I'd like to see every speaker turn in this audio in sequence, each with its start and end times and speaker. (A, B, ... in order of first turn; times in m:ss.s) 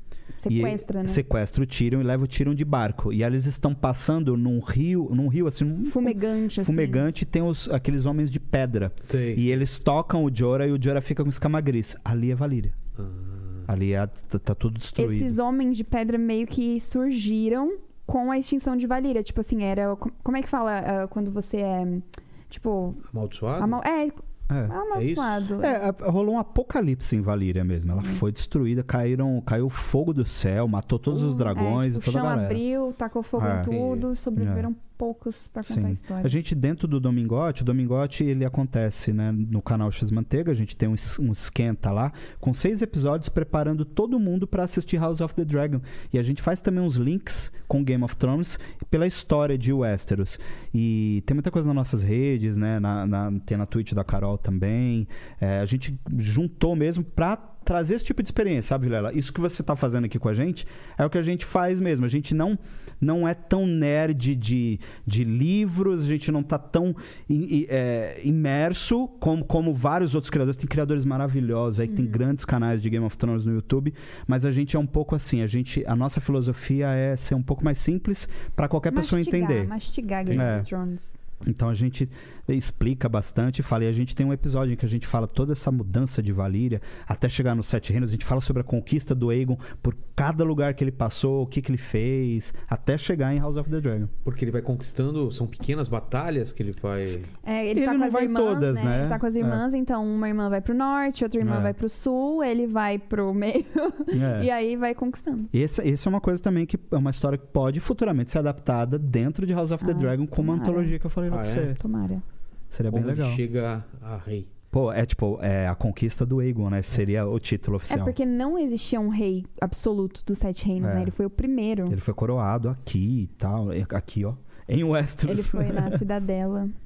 0:00.4-0:01.2 A
0:00.5-0:12.7 B
0:05.8-0:07.0 A
0:09.0-0:09.6 C
0:13.0-0:13.7 C
0:13.7-0:15.4 B
0:15.0-0:23.0 A
0:23.1-0:23.8 C
0:23.6-0:25.8 A
0:24.5-0:24.7 B
0:24.9-0:25.4 C
0:25.6-0:32.6 B
0:31.1-0:36.4 A
0:33.4-0:33.7 B
0:33.6-0:34.1 C
0:34.4-0:34.7 B
0:35.7-1:19.7 B
1:11.9-1:12.2 A
1:18.9-1:21.1 A
1:20.3-1:20.7 B
1:21.4-1:34.1 B
1:34.2-1:37.3 C
1:37.4-1:45.5 A
1:37.7-1:39.6 B
1:41.4-1:41.7 B
1:44.1-1:44.5 B
1:45.5-1:51.8 B
1:49.8-1:51.0 A
1:51.3-1:51.7 C
1:51.8-1:52.2 A
1:52.7-1:53.4 B
1:52.9-1:54.5 C
1:54.7-1:58.1 B
1:57.9-2:02.0 A
2:00.8-2:01.1 B
2:01.9-2:06.0 B
2:05.2-2:06.7 A